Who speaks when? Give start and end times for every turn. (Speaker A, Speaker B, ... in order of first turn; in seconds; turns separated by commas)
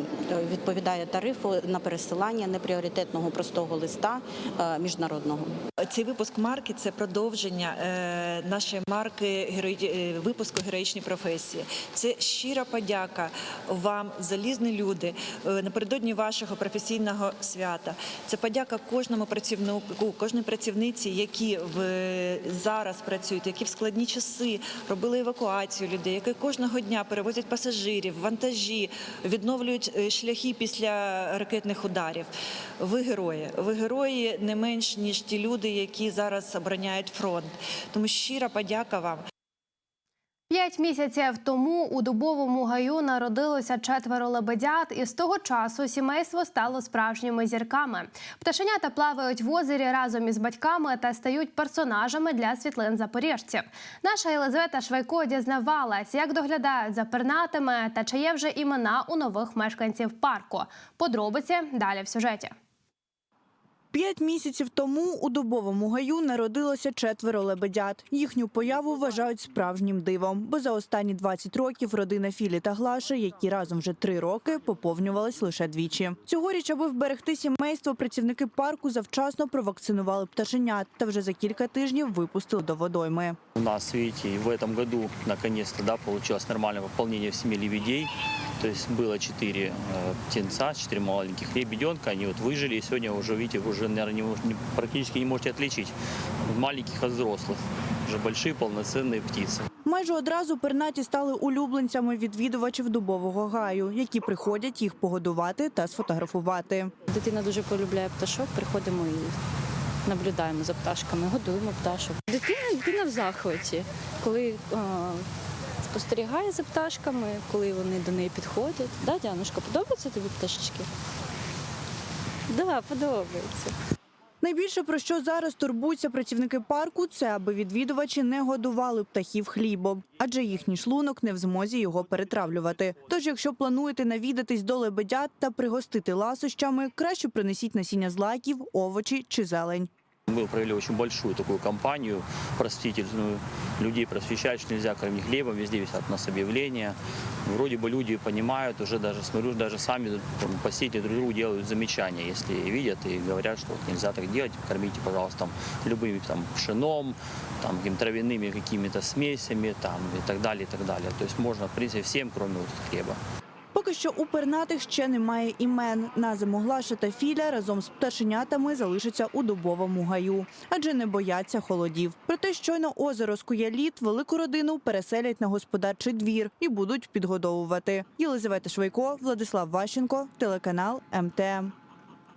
Speaker A: 0.4-5.4, Speaker B: 5.8-39.2, Speaker C: 40.5-62.5, Speaker D: 63.9-83.4, Speaker E: 83.5-95.9, Speaker E: 96.5-99.6, Speaker D: 99.8-106.9, Speaker F: 107.1-109.3, Speaker F: 110.0-115.2, Speaker F: 115.9-120.9, Speaker F: 122.5-123.7, Speaker D: 124.4-139.9, Speaker E: 140.3-163.2, Speaker D: 163.7-181.7